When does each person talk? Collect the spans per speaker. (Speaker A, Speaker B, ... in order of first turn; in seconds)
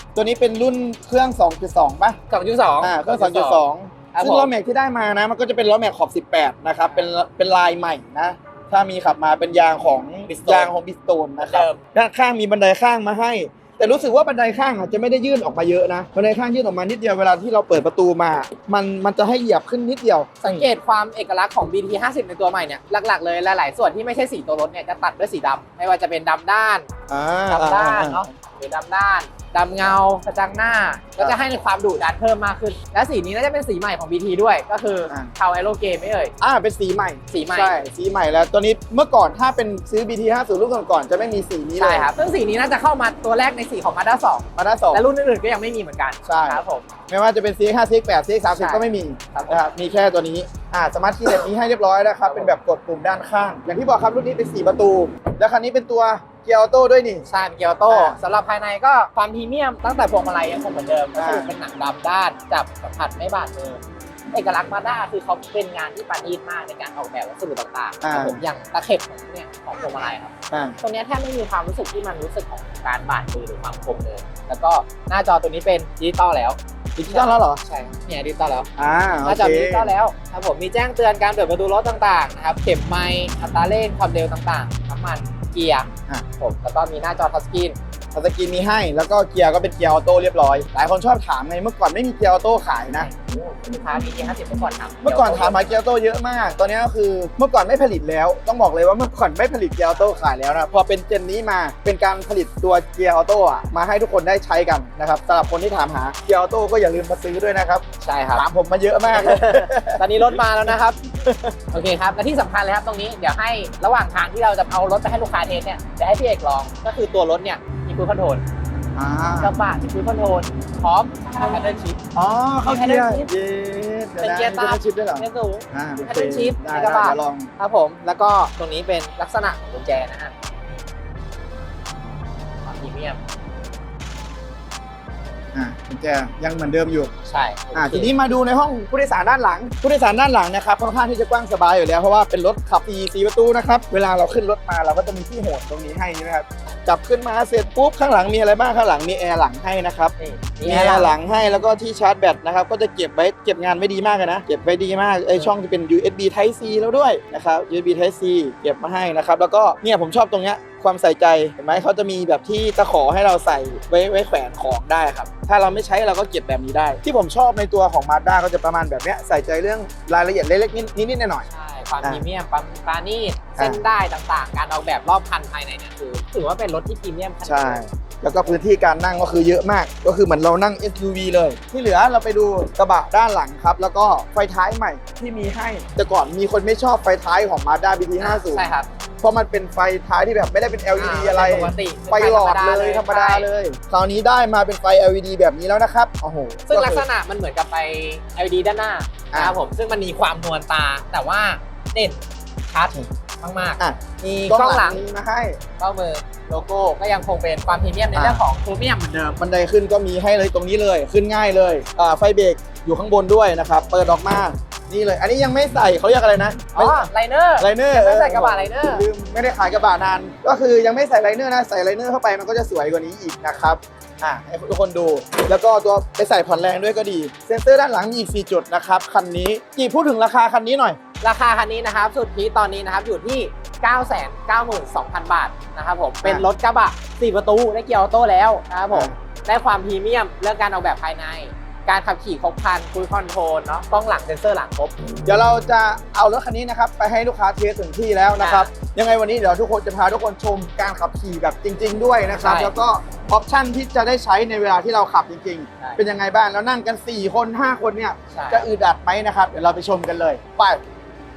Speaker A: 0.1-2.2, 2.8-20.7, 27.1-28.3, 36.4-42.1, 44.5-45.0, 46.2-57.3, 57.9-58.2, 61.1-61.5, 68.0-68.4, 70.5-70.8, 77.0-77.6, 78.8-80.0, 88.1-93.1, 95.0-107.8, 108.3-110.7, 111.2-111.5, 118.9-119.5, 122.1-127.5, 135.5-137.1, 137.7-171.5, 173.5-173.8, 177.4-188.7, 189.2-197.1, 199.3-199.6, 203.8-205.6, 208.1-208.4, 209.4-231.0, 238.9-239.2, 245.2-260.8
Speaker B: 2.3-4.5, 10.3-10.7, 11.4-11.8, 20.4-26.9, 27.5-36.3, 37.3-37.8, 41.9-46.9, 48.5-49.7, 52.2-52.6, 57.3-78.7, 79.2-87.8, 92.9-95.7, 108.0-108.5, 109.0-111.0, 111.7-118.4, 119.3-122.0, 122.6-123.3, 124.2-130.3, 132.6-133.2, 137.2-138.1, 150.2-151.2, 171.4-177.8, 188.2-188.9, 190.9-193.5, 196.7-205.0, 205.8-209.4, 216.7-219.1, 231.2-244.9, 248.4-248.7, 252.3-252.7, 258.3-258.7